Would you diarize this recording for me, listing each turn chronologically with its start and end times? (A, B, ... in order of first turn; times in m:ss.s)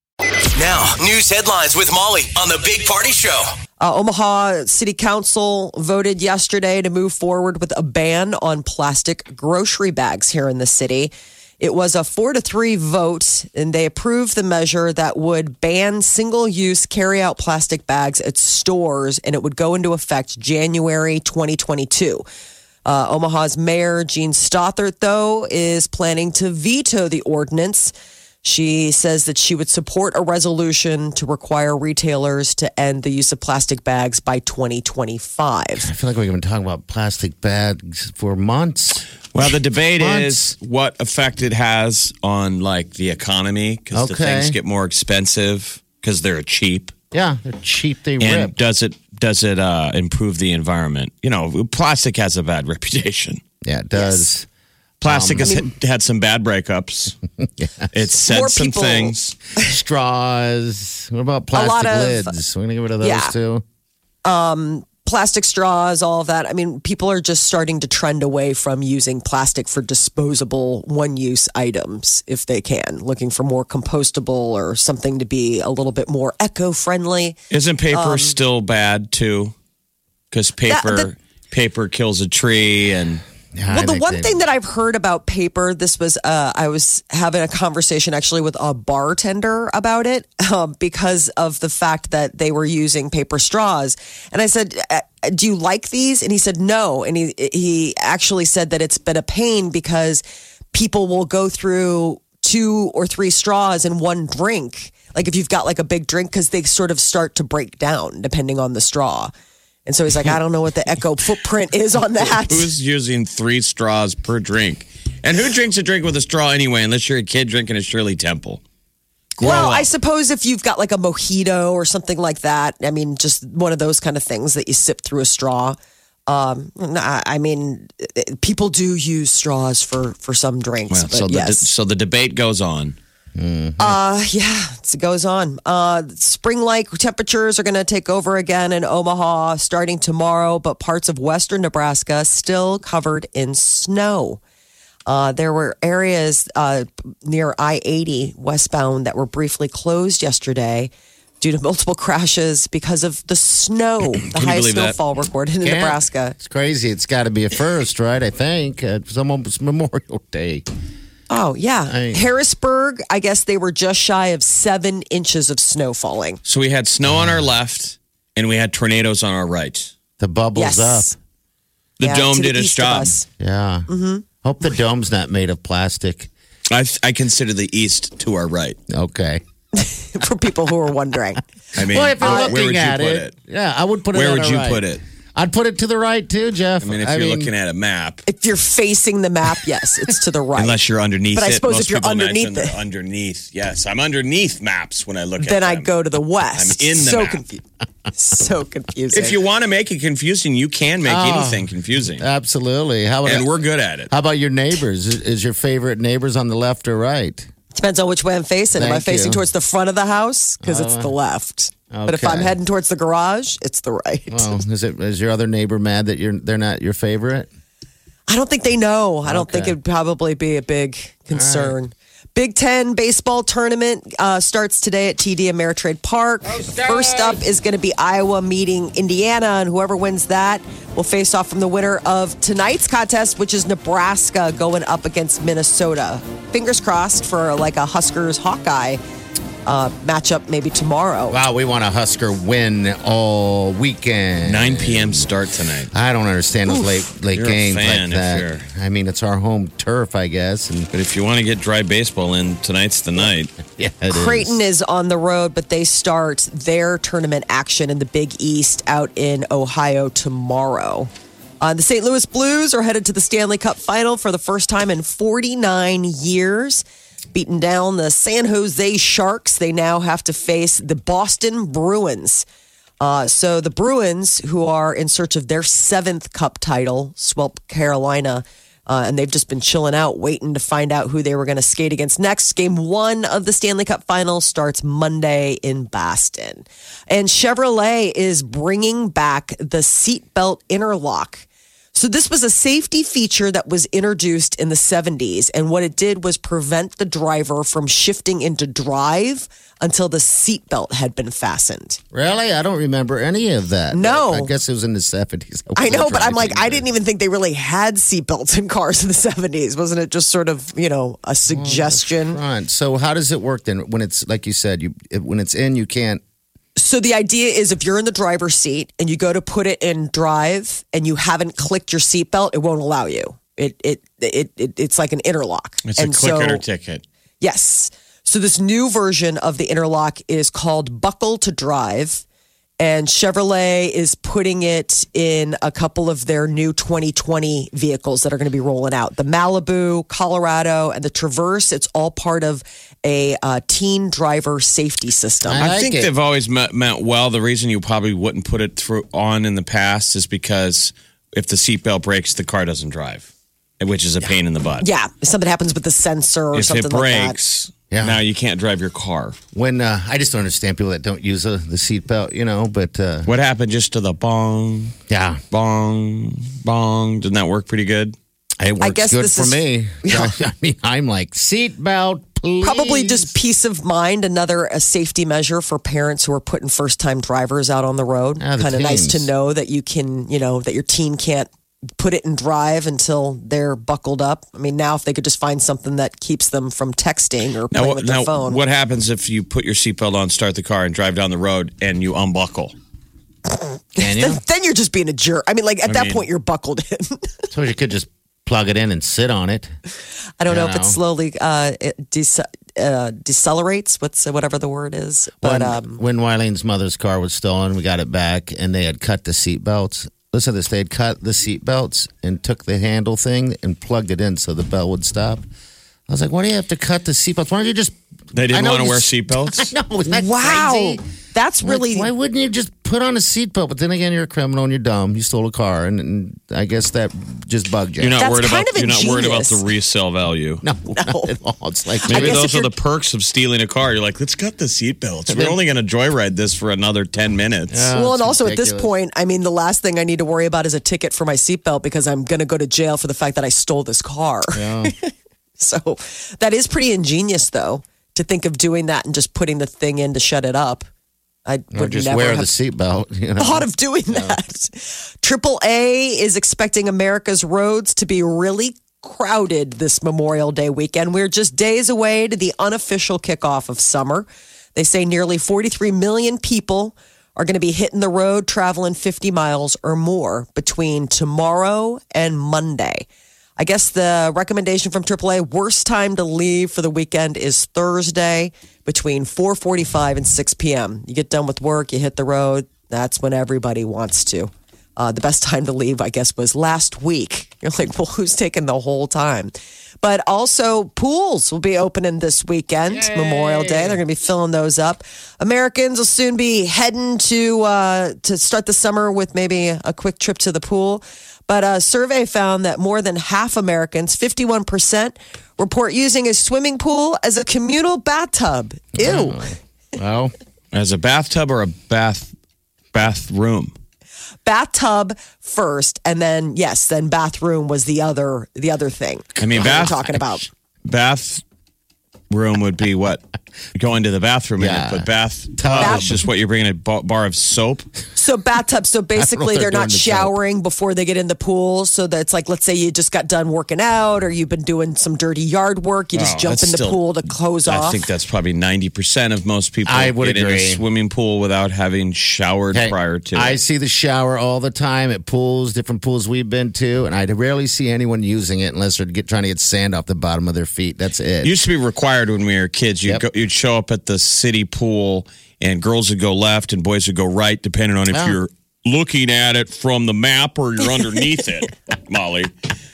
0:00.6-0:03.5 A
0:03.8-0:22.2 B
0:22.8-0:27.9 B
0:28.4-0:35.9 B
0:35.8-0:39.0 C
0:39.3-0:46.9 D
0:40.0-0:40.4 C
0:43.9-0:44.6 C
0:47.1-0:48.5 C
0:48.2-0:53.4 D
0:53.6-0:54.5 C
0:54.0-0:54.3 B
0:55.0-0:57.2 D
0:55.0-0:55.6 C
0:55.4-0:55.7 B
0:57.4-0:57.9 C
0:57.9-0:59.4 D
0:58.3-0:59.1 B
0:59.6-1:03.6 C
1:01.5-1:02.3 B
1:03.0-1:03.4 B
1:04.2-1:17.4 B
1:17.5-1:19.5 D
1:17.9-1:18.4 B
1:20.3-1:23.2 D
1:20.7-1:21.1 B
1:23.5-1:24.4 C
1:23.7-1:49.3 B
1:49.8-1:52.7 B
1:52.1-1:58.6 D
1:59.4-1:59.9 D
1:59.4-2:11.6 B
2:10.9-2:13.0 D
2:13.4-2:14.0 C
2:13.8-2:24.4 B
2:25.1-2:36.3 B
2:34.2-2:35.0 D
2:35.6-2:40.7 C
2:41.3-2:46.4 B
2:41.9-2:42.2 C
2:46.4-2:49.9 D
2:47.0-2:47.4 C
2:50.2-2:51.1 C
2:50.6-2:51.1 B
2:52.0-2:53.1 D
2:52.0-2:53.3 B
2:53.4-2:53.9 C
2:53.9-2:54.2 B
2:54.4-2:56.3 C
2:56.7-2:58.8 D
2:58.9-2:59.4 C
2:59.7-3:01.4 B
3:01.8-3:03.3 D
3:01.8-3:04.8 C
3:02.2-3:02.5 B
3:04.1-3:05.0 D
3:05.3-3:07.5 C
3:06.8-3:08.2 D
3:08.2-3:10.8 B
3:10.6-3:15.9 D
3:11.3-3:12.8 B
3:15.4-3:17.6 B
3:16.6-3:17.4 D
3:18.1-3:19.4 B
3:19.1-3:22.2 D
3:21.0-3:23.5 C
3:23.2-3:24.1 D
3:24.1-3:27.5 C
3:27.7-3:34.5 B
3:28.8-3:29.4 C
3:30.6-3:31.1 C
3:31.9-3:32.5 C
3:34.3-3:37.5 C
3:38.3-3:59.0 B
3:39.2-3:39.8 C
3:41.3-3:41.8 C
3:46.4-3:47.4 C
3:59.6-4:01.4 B
4:01.3-4:05.3 C
4:04.4-4:05.9 D
4:05.9-4:10.9 C
4:07.3-4:08.6 D
4:10.9-4:13.5 D
4:13.6-4:14.6 C
4:14.1-4:21.1 B
4:21.6-4:32.4 B
4:33.0-5:02.0 B
5:02.1-5:06.9 C
5:03.9-5:04.5 B
5:05.8-5:12.4 B
5:11.5-5:16.2 C
5:16.8-5:26.6 B
5:25.8-5:27.0 D
5:27.4-5:32.2 B
5:32.8-5:45.7 B
5:45.4-5:46.1 C
5:45.6-5:53.3 D
5:53.8-5:54.9 D
5:54.8-5:57.4 B
5:56.5-5:59.4 D
5:57.9-5:58.2 C
5:59.5-6:03.3 C
6:03.2-6:05.0 D
6:05.1-6:05.4 C
6:05.5-6:08.2 D
6:08.6-6:13.3 C
6:08.8-6:10.3 B
6:12.6-6:28.6 B
6:18.4-6:19.3 C
6:27.7-6:32.8 D
6:34.0-6:37.3 B
6:34.0-6:34.4 C
6:35.9-6:36.2 D
6:37.5-6:39.7 C
6:40.4-6:46.0 B
6:40.5-6:41.0 C
6:45.4-6:55.4 C
6:56.1-6:58.0 C
6:58.3-6:59.7 D
6:58.5-7:01.0 C
7:00.1-7:02.1 B
7:01.6-7:08.2 C
7:08.0-7:10.6 D
7:08.2-7:09.6 B
7:10.6-7:12.4 C
7:10.9-7:11.4 B
7:12.0-7:12.7 B
7:12.1-7:17.9 D
7:15.3-7:15.6 C
7:17.7-7:18.9 C
7:17.9-7:30.9 B
7:24.5-7:24.9 C
7:31.4-7:32.5 B
7:31.7-7:34.4 C
7:33.4-7:53.1 B
7:53.6-8:29.5 B
8:12.9-8:14.0 C
8:28.9-8:30.3 C
8:30.7-8:32.3 D
8:32.9-8:33.7 D
8:34.4-8:40.5 B
8:39.4-8:40.1 D
8:39.6-8:40.0 C
8:40.8-8:41.4 D
8:42.3-8:43.2 D
8:43.8-8:47.9 D
8:44.6-8:46.2 C
8:45.8-8:46.2 B
8:48.2-8:58.0 B
8:49.2-8:50.3 C
8:56.1-8:57.1 D
8:57.6-9:03.6 D
8:59.9-9:00.8 C
9:02.7-9:11.6 C
9:11.4-9:22.5 D
9:18.1-9:18.4 C